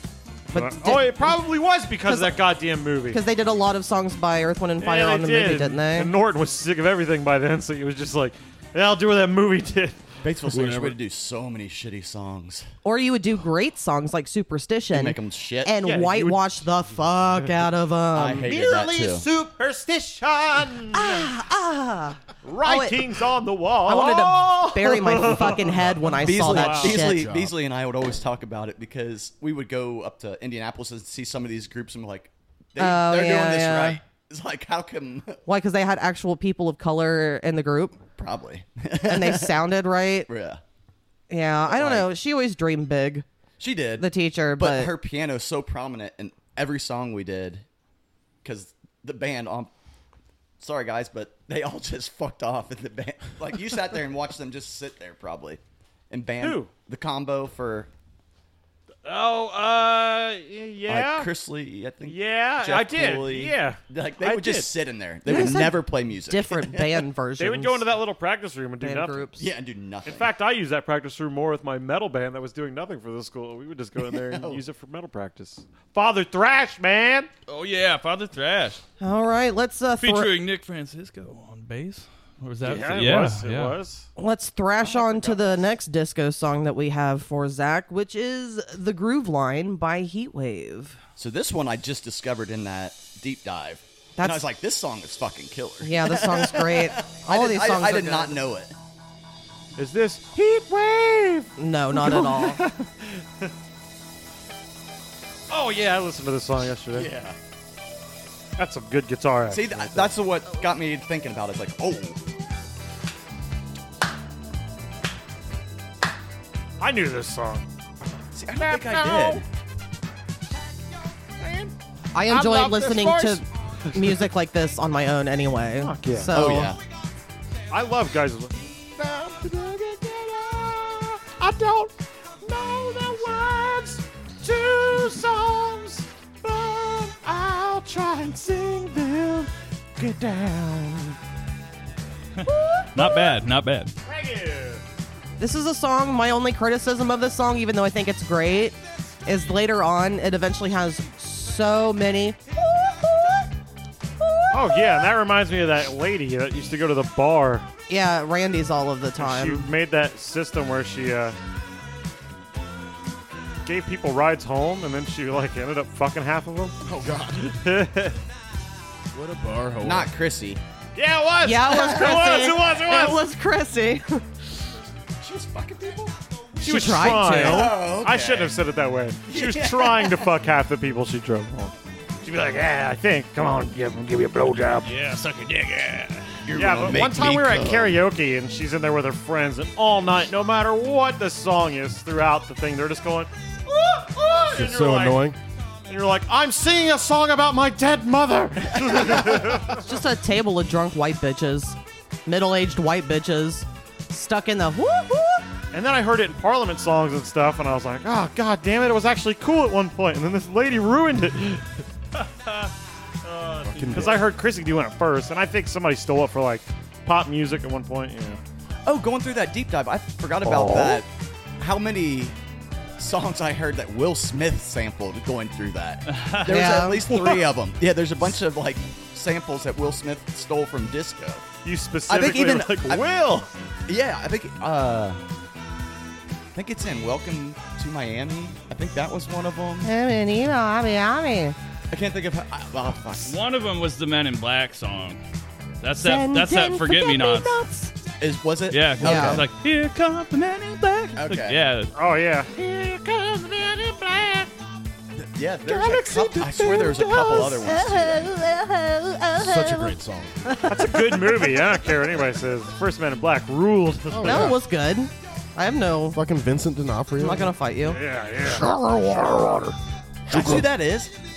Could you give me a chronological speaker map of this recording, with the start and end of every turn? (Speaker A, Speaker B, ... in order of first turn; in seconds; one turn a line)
Speaker A: 0.5-1.4
Speaker B: 0.5-3.2
Speaker A: 2.0-2.4
Speaker A: 3.1-6.1
Speaker B: 4.8-10.0
Speaker C: 10.2-12.7
Speaker D: 10.5-10.9
Speaker A: 12.8-18.5
Speaker C: 14.9-15.8
Speaker B: 15.8-16.6
Speaker C: 18.1-19.3
Speaker B: 18.4-21.3
Speaker A: 20.9-23.0
Speaker B: 22.4-26.9
Speaker A: 23.8-27.2
Speaker C: 26.2-35.4
Speaker D: 26.8-27.5
Speaker A: 32.8-34.0
Speaker A: 35.5-38.0
Speaker C: 38.2-39.6
Speaker A: 39.0-40.3
Speaker C: 40.3-40.6
Speaker A: 41.3-43.2
Speaker C: 41.7-42.1
Speaker C: 43.6-47.6
Speaker A: 44.0-44.9
Speaker C: 48.4-49.7
Speaker C: 50.6-57.9
Speaker B: 56.4-56.7
Speaker B: 59.0-61.3
Speaker C: 60.9-66.8
Speaker B: 62.0-64.7
Speaker A: 65.2-67.8
Speaker B: 67.4-69.3
Speaker A: 68.8-69.5
Speaker C: 69.4-70.3
Speaker B: 70.0-77.3
Speaker C: 74.2-74.6
Speaker E: 77.5-78.8
Speaker A: 79.0-80.3
Speaker E: 80.0-83.8
Speaker B: 82.6-84.1
Speaker A: 84.2-91.0
Speaker B: 84.8-85.4
Speaker C: 91.2-98.7
Speaker A: 94.2-94.5
Speaker A: 95.8-98.4
Speaker B: 99.7-103.5
Speaker A: 101.6-102.6
Speaker B: 105.5-107.1
Speaker C: 106.9-107.4
Speaker B: 108.6-110.1
Speaker C: 109.4-112.2
Speaker B: 116.8-117.7
Speaker C: 118.3-119.4
Speaker B: 118.5-119.4
Speaker B: 121.4-121.7
Speaker A: 122.1-126.7
Speaker B: 122.3-124.3
Speaker B: 125.8-126.3
Speaker C: 126.3-126.8
Speaker B: 127.7-141.2
Speaker E: 142.4-143.9
Speaker B: 142.4-143.3
Speaker B: 144.1-144.8
Speaker A: 145.4-152.4
Speaker A: 154.2-155.1
Speaker B: 154.5-157.7
Speaker A: 157.9-159.7
Speaker B: 159.2-161.4
Speaker B: 163.6-166.8
Speaker D: 166.8-167.5
Speaker B: 167.4-168.2
Speaker D: 169.1-170.1
Speaker C: 169.8-170.6
Speaker B: 170.9-173.2
Speaker A: 171.4-174.2
Speaker C: 175.2-176.2
Speaker B: 176.6-184.9
Speaker A: 176.6-177.8
Speaker C: 177.2-178.6
Speaker C: 179.3-180.3
Speaker E: 184.8-186.4
Speaker C: 186.4-188.0
Speaker B: 186.5-195.2
Speaker D: 194.5-195.4
Speaker B: 195.9-199.8
Speaker C: 198.8-199.4
Speaker A: 199.7-205.5
Speaker B: 205.7-211.8
Speaker B: 213.2-218.4
Speaker D: 213.6-214.3
Speaker C: 218.8-222.3
Speaker B: 220.4-221.0
Speaker C: 223.0-231.4
Speaker E: 226.1-226.6
Speaker A: 226.4-227.0
Speaker B: 227.0-227.4
Speaker B: 231.6-233.5
Speaker C: 232.1-233.0
Speaker C: 233.9-235.2
Speaker C: 236.5-239.9
Speaker A: 239.8-241.6
Speaker C: 241.9-243.4
Speaker E: 243.2-245.2
Speaker E: 245.8-247.5
Speaker A: 246.0-247.9
Speaker C: 248.2-249.5
Speaker E: 248.7-251.9
Speaker A: 249.0-249.4
Speaker C: 251.1-251.6
Speaker B: 251.9-254.5
Speaker C: 255.2-258.4
Speaker B: 255.6-257.3
Speaker A: 256.9-259.9
Speaker D: 259.3-260.4
Speaker A: 260.4-261.4
Speaker B: 260.7-264.5
Speaker D: 264.1-264.6
Speaker A: 264.2-266.2
Speaker D: 266.1-267.5
Speaker A: 267.2-268.0
Speaker B: 267.8-268.7
Speaker D: 268.5-269.7
Speaker D: 270.3-270.6
Speaker C: 270.3-271.1